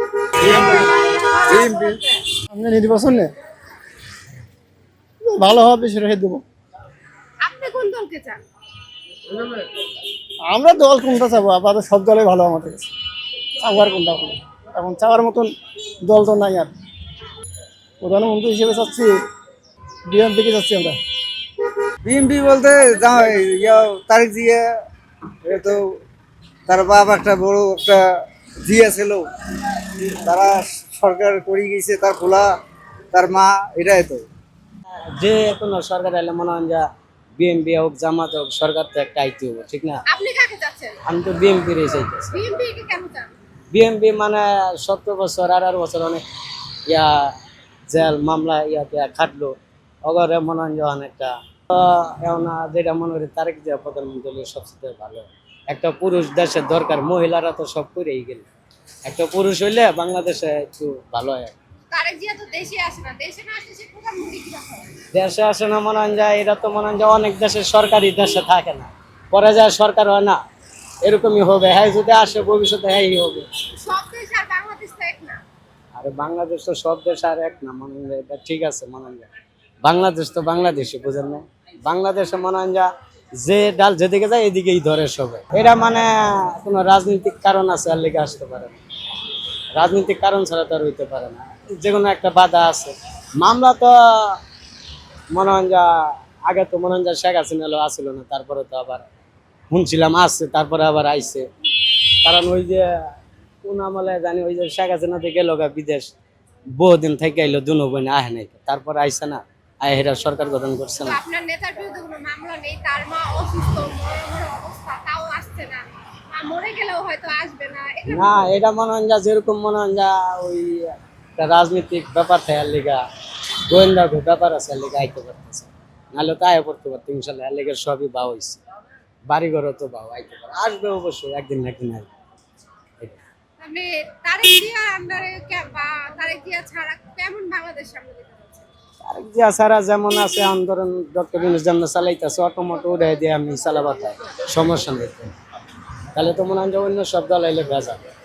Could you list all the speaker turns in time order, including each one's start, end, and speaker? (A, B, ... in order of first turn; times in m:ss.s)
0:00.4-0:00.9 A
0:00.4-0:02.2 B
0:01.5-0:02.0 A
0:02.5-0:03.3 C
0:05.3-0:06.4 C
0:07.4-0:08.4 B
0:10.5-0:12.9 C
0:13.6-0:15.5 C
0:16.0-0:16.7 C
0:18.0-0:19.1 C
0:20.1-0:21.0 C
0:22.0-0:24.6 A
0:25.4-0:25.8 A
0:26.7-0:28.0 A
0:28.6-0:29.3 A
0:30.1-0:32.5 A
0:33.1-0:34.3 A
0:35.2-0:36.9 D
0:37.4-0:40.0 D
0:40.1-0:41.0 B
0:41.0-0:42.4 D
0:42.3-0:43.3 B
0:43.7-0:46.2 D
0:46.9-0:47.3 D
0:47.9-0:49.6 D
0:50.1-0:58.5 D
0:59.0-1:01.6 D
1:01.9-1:05.0 B
1:05.0-1:10.4 D
1:11.0-1:13.5 D
1:13.8-1:15.4 B
1:16.0-1:19.3 D
1:19.8-1:22.9 D
1:23.4-1:28.8 D
1:29.8-1:34.4 D
1:35.3-1:39.0 D
1:39.7-1:42.9 D
1:43.6-1:46.1 D
1:46.8-1:51.2 D
1:51.0-1:58.6 B
1:58.1-2:03.0 D
2:03.7-2:08.6 D
2:09.3-2:12.1 D
2:13.6-2:18.7 B
2:19.0-2:25.3 D
2:26.1-2:28.0 D